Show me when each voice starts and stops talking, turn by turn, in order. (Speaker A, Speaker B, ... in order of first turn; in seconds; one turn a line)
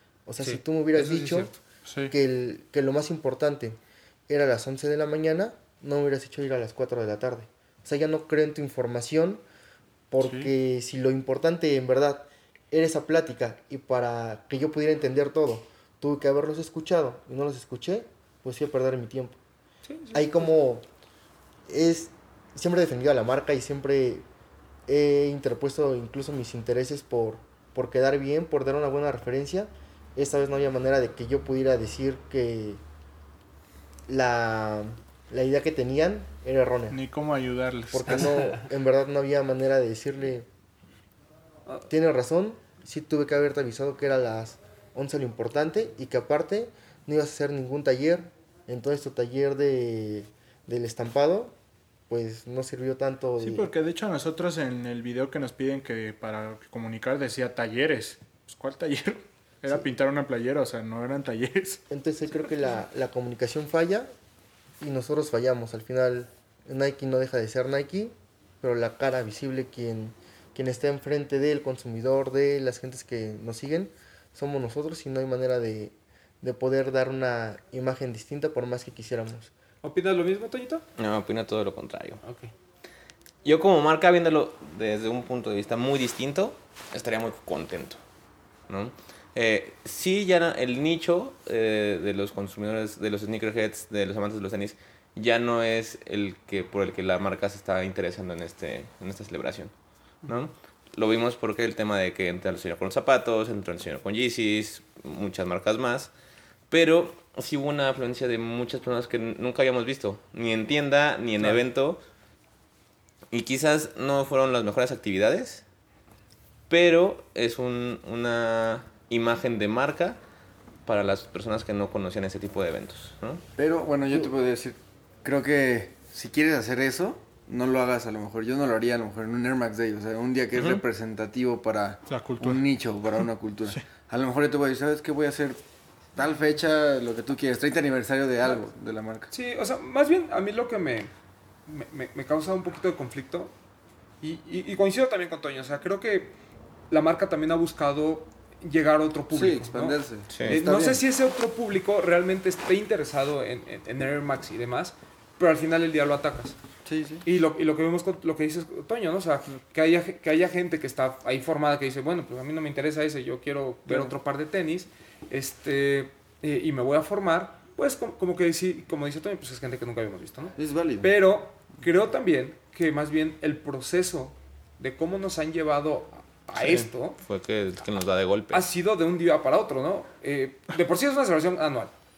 Speaker A: 0.2-1.5
Speaker B: 0.4-1.6
Speaker C: 1.8-2.1
Speaker A: 2.1-9.4
Speaker A: 10.1-19.4
Speaker C: 10.2-10.5
Speaker B: 19.8-20.5
Speaker A: 20.1-20.9
Speaker A: 21.7-24.2
Speaker A: 24.9-32.8
Speaker A: 34.1-37.0
Speaker C: 36.9-38.4
Speaker A: 37.9-40.5
Speaker A: 41.9-51.5
Speaker A: 52.1-53.7
Speaker C: 53.4-61.8
Speaker A: 61.9-64.1
Speaker A: 64.8-79.5
Speaker B: 79.8-80.8
Speaker D: 81.0-82.2
Speaker B: 82.2-82.5
Speaker D: 83.4-88.0
Speaker D: 88.7-99.7
Speaker D: 100.2-106.1
Speaker D: 106.7-112.0
Speaker D: 113.3-115.6
Speaker D: 116.7-120.2
Speaker D: 120.8-123.4
Speaker E: 123.6-135.6
Speaker D: 130.6-130.8
Speaker C: 132.1-132.6
Speaker E: 136.2-139.3
Speaker B: 139.3-141.1
Speaker B: 141.7-143.5
Speaker B: 144.2-146.3
Speaker B: 146.9-156.6
Speaker E: 149.3-151.0
Speaker D: 150.3-150.6
Speaker E: 156.8-157.2
Speaker B: 157.2-177.2
Speaker E: 163.9-164.1
Speaker E: 170.6-171.1
Speaker D: 176.6-178.7
Speaker B: 178.5-181.9